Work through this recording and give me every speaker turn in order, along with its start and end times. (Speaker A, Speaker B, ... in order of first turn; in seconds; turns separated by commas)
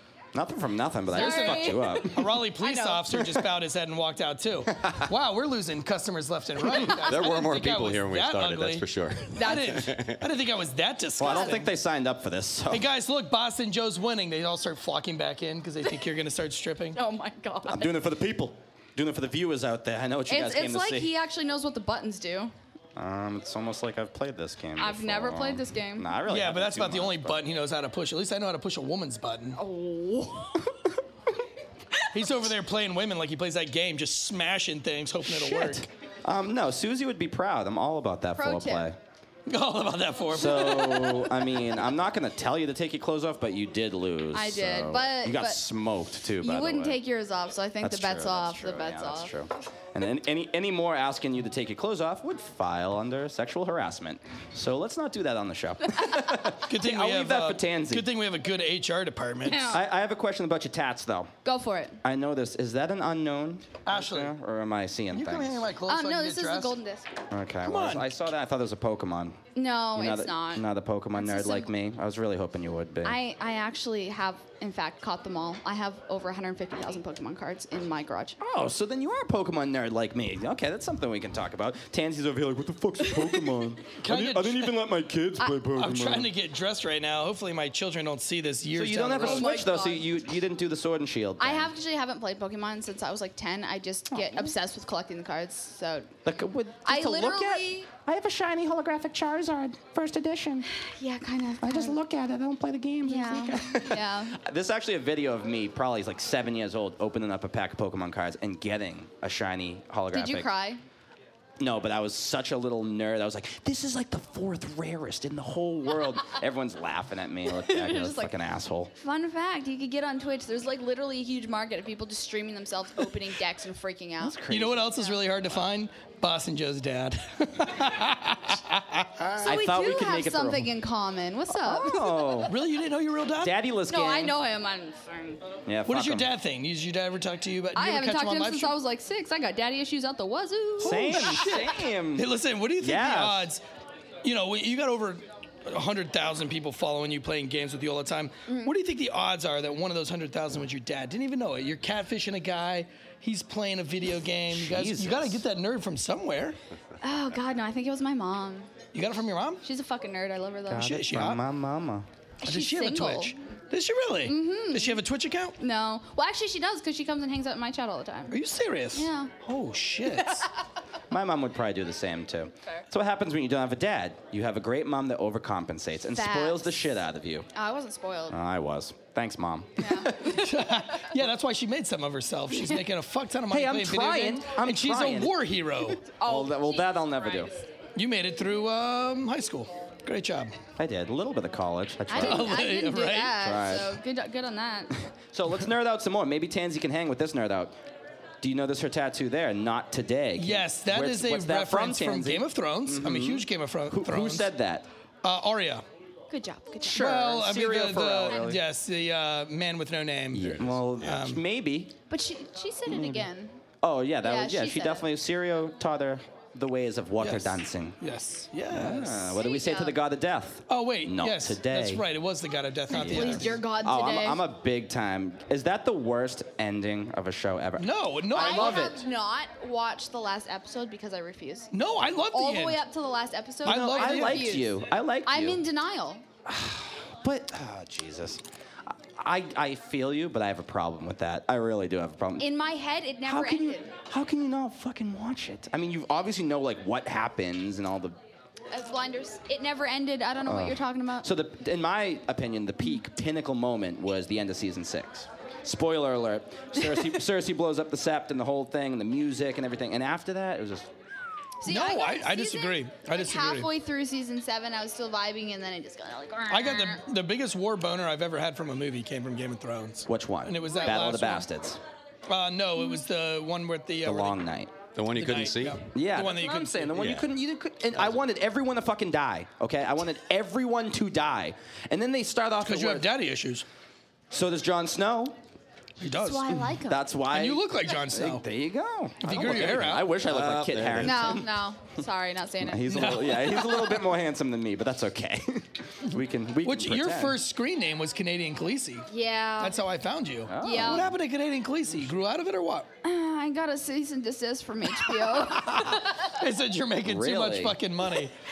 Speaker A: 0.3-2.4, Speaker B: 1.1-3.3, Speaker C: 1.1-11.7, Speaker D: 6.9-10.2, Speaker B: 9.3-9.9, Speaker A: 11.2-12.9, Speaker B: 11.2-11.6, Speaker C: 12.7-17.0, Speaker B: 16.9-17.9, Speaker A: 17.6-21.1, Speaker B: 20.3-22.5, Speaker A: 22.9-27.4, Speaker B: 24.8-26.1, Speaker C: 26.3-29.6, Speaker B: 29.6-30.7, Speaker C: 32.1-35.9, Speaker A: 35.2-39.0, Speaker B: 38.3-38.9, Speaker C: 39.5-41.5, Speaker A: 40.3-47.0, Speaker B: 44.3-45.6, Speaker B: 46.4-49.3, Speaker A: 47.8-58.1, Speaker C: 56.6-59.7, Speaker B: 59.4-59.8, Speaker A: 59.7-61.3, Speaker B: 61.4-62.0, Speaker A: 62.0-65.7, Speaker C: 63.9-64.3, Speaker C: 65.1-66.8, Speaker B: 65.8-67.1, Speaker A: 67.3-69.4, Speaker C: 67.6-68.1, Speaker B: 69.5-71.7, Speaker A: 69.9-73.2, Speaker B: 73.0-78.4, Speaker A: 78.4-86.3, Speaker B: 83.0-83.5, Speaker C: 84.0-84.8, Speaker C: 85.5-89.5, Speaker A: 88.7-91.7, Speaker B: 89.1-90.1, Speaker B: 91.4-96.1, Speaker A: 94.1-94.5, Speaker A: 96.2-100.7, Speaker B: 96.8-97.9, Speaker B: 100.6-102.0, Speaker A: 101.6-110.5, Speaker B: 103.0-104.4, Speaker B: 110.1-110.8, Speaker A: 111.6-118.9, Speaker B: 117.5-118.3, Speaker B: 119.0-124.4, Speaker A: 124.2-125.1, Speaker C: 124.5-129.2, Speaker A: 129.2-130.7, Speaker B: 129.4-132.5, Speaker A: 131.5-132.5, Speaker C: 132.5-133.5, Speaker A: 133.4-134.4, Speaker B: 133.9-135.4, Speaker A: 135.7-136.3, Speaker C: 135.8-138.7, Speaker B: 137.7-141.7, Speaker C: 140.8-143.6, Speaker A: 140.8-143.5, Speaker C: 144.2-156.6, Speaker B: 148.5-148.7, Speaker A: 154.5-155.4, Speaker B: 157.0-158.7, Speaker C: 158.9-159.6, Speaker B: 159.6-160.9, Speaker A: 160.7-162.1, Speaker C: 160.8-161.4, Speaker B: 162.4-163.3, Speaker C: 162.4-165.6, Speaker B: 164.2-165.0, Speaker B: 165.6-168.4, Speaker C: 168.3-170.5, Speaker B: 168.9-169.3, Speaker A: 171.1-177.5, Speaker B: 176.1-176.7, Speaker B: 177.5-178.4, Speaker A: 178.3-180.2, Speaker B: 179.8-180.4, Speaker C: 180.1-186.0, Speaker A: 183.5-185.3, Speaker B: 186.0-187.6, Speaker A: 186.2-187.5, Speaker C: 187.9-190.5, Speaker A: 190.8-192.6, Speaker B: 192.1-194.9, Speaker C: 192.1-193.4, Speaker A: 193.4-194.0, Speaker A: 195.2-197.8, Speaker A: 198.4-204.9, Speaker C: 200.4-204.5, Speaker C: 205.2-205.8, Speaker B: 206.3-207.1, Speaker A: 206.8-208.6, Speaker C: 206.9-211.4, Speaker B: 208.2-208.6, Speaker A: 210.3-211.9, Speaker B: 212.1-213.6, Speaker A: 212.9-213.3, Speaker A: 213.8-218.0, Speaker B: 214.2-215.1, Speaker C: 217.2-219.4, Speaker A: 218.7-222.0, Speaker B: 219.3-220.0, Speaker C: 220.7-223.6, Speaker B: 222.9-224.4, Speaker A: 222.9-229.0, Speaker C: 227.8-228.9, Speaker B: 228.3-231.7, Speaker C: 231.7-232.8, Speaker B: 232.3-236.2, Speaker A: 233.6-235.6, Speaker C: 233.6-234.6, Speaker A: 236.4-242.5, Speaker B: 242.4-243.9, Speaker A: 243.2-248.2, Speaker B: 248.7-251.3, Speaker A: 250.4-260.9, Speaker B: 261.6-267.0, Speaker C: 261.6-263.7, Speaker C: 266.5-271.5, Speaker A: 270.1-271.8, Speaker C: 272.3-274.4, Speaker A: 274.0-274.7, Speaker D: 274.9-275.9, Speaker C: 275.1-277.1, Speaker A: 275.9-283.1, Speaker D: 276.9-277.3, Speaker C: 282.6-283.6, Speaker A: 284.3-285.4, Speaker C: 286.0-286.6, Speaker B: 286.1-287.1, Speaker A: 286.5-291.5, Speaker C: 287.3-288.4, Speaker C: 289.2-290.1, Speaker D: 289.4-291.4, Speaker B: 291.0-292.9, Speaker A: 292.6-297.4, Speaker C: 292.9-294.1, Speaker C: 296.6-299.1, Speaker B: 299.1-299.8, Speaker C: 299.6-302.9, Speaker A: 300.4-301.1, Speaker B: 300.6-301.1, Speaker B: 303.0-306.3, Speaker C: 304.9-308.3, Speaker A: 307.0-307.8